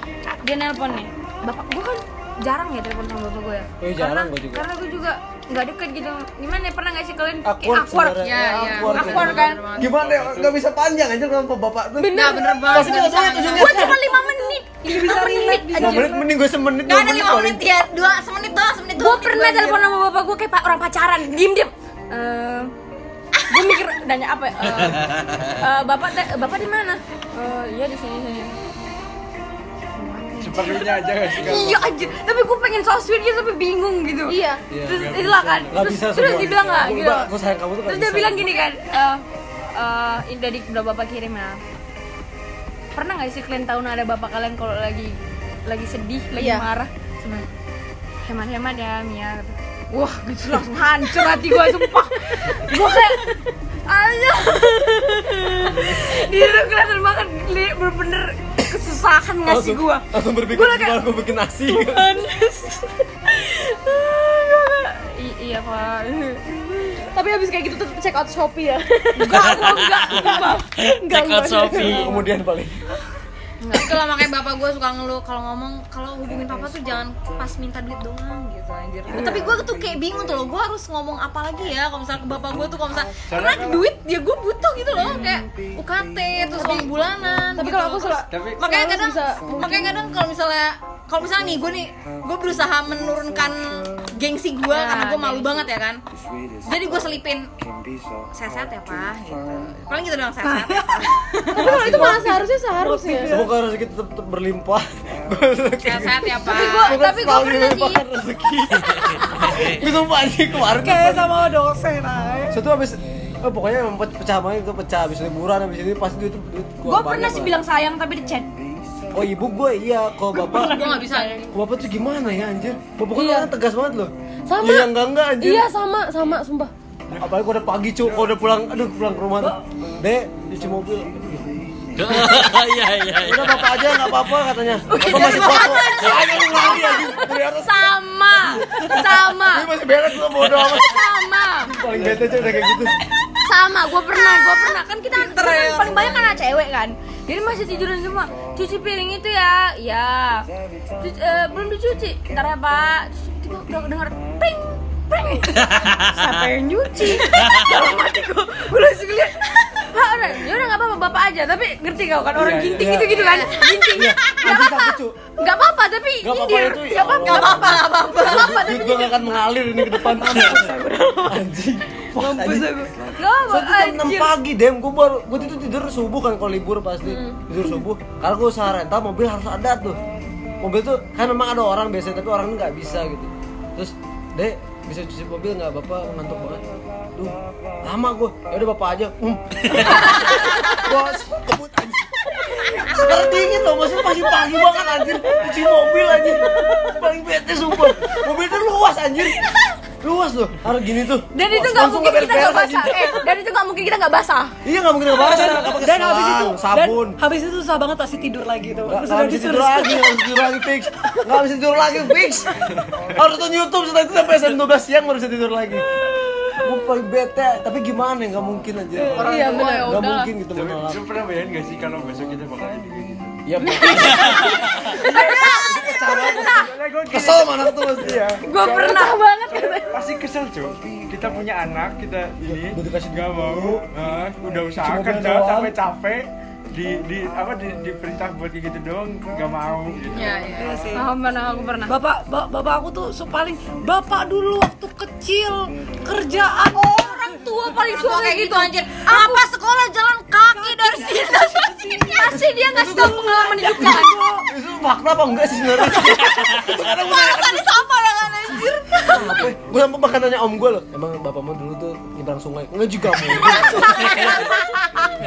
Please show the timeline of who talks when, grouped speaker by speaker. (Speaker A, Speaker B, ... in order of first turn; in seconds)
Speaker A: 0.4-9.7, 13.5-16.1, 18.9-22.7, 23.5-28.5, 29.9-37.3, 37.8-41.6, 42.9-47.5, 48.2-61.1, 61.7-66.5, 69.2-70.7, 73.6-74.3, 84.9-85.4, 94.7-95.7, 106.4-108.0, 116.8-118.5, 120.4-121.5, 134.9-139.7, 140.5-141.8, 143.4-150.5, 151.0-171.4, 172.1-174.3, 190.2-190.8, 192.9-193.2, 196.5-196.9, 197.8-198.3, 199.2-199.6, 201.3-204.6, 219.3-220.3, 225.0-226.7, 228.4-229.9, 240.9-241.9, 246.7-249.5, 250.4-254.2, 255.9-259.4, 264.1-264.3
Speaker B: 3.8-4.7, 7.4-14.0, 15.8-17.7, 34.7-38.5, 55.6-56.2, 59.4-62.2, 71.7-72.9, 101.6-102.4, 103.2-111.3, 112.5-117.6, 119.1-120.8, 121.5-125.7, 127.2-132.6, 133.2-137.8, 138.6-141.0, 141.6-142.9, 163.9-165.2, 166.2-180.0, 180.6-186.6, 187.1-192.1, 192.8-199.5, 200.0-203.2, 204.6-207.2, 208.8-215.8, 216.6-221.0, 223.4-228.3, 232.5-233.8, 234.8-235.8, 252.7-257.6, 259.0-264.3
Speaker C: 8.2-10.0, 12.1-13.9, 16.8-19.9, 23.4-23.7, 73.7-96.0, 96.6-97.5, 98.3-101.6, 105.8-107.0, 120.4-121.5, 144.2-144.6, 145.1-146.3, 163.1-163.7, 167.2-168.3, 240.1-240.8, 247.8-251.1, 256.8-259.0, 263.6-264.6
Speaker D: 9.9-10.6, 30.4-32.1, 34.9-35.9, 83.2-83.9, 88.3-88.6, 127.1-127.3, 128.0-128.3, 141.9-142.7, 162.3-163.2, 212.8-213.1, 219.1-219.6, 220.5-223.4, 224.4-240.6
Speaker E: 12.0-13.1, 13.8-14.5, 34.3-34.6, 46.4-46.6, 67.0-69.5, 70.1-72.2, 79.1-79.5, 86.6-86.9, 87.5-90.0, 101.5-103.3, 123.1-123.5, 124.5-126.7, 219.2-220.0, 223.7-224.2
Speaker F: 14.8-16.2, 100.4-101.0, 101.8-102.0, 102.8-103.5, 110.6-112.6, 205.1-210.3, 240.5-241.1, 241.8-247.2, 250.5-254.4
Speaker G: 24.8-25.4, 69.3-72.1, 131.9-133.9, 155.6-156.4, 157.2-157.7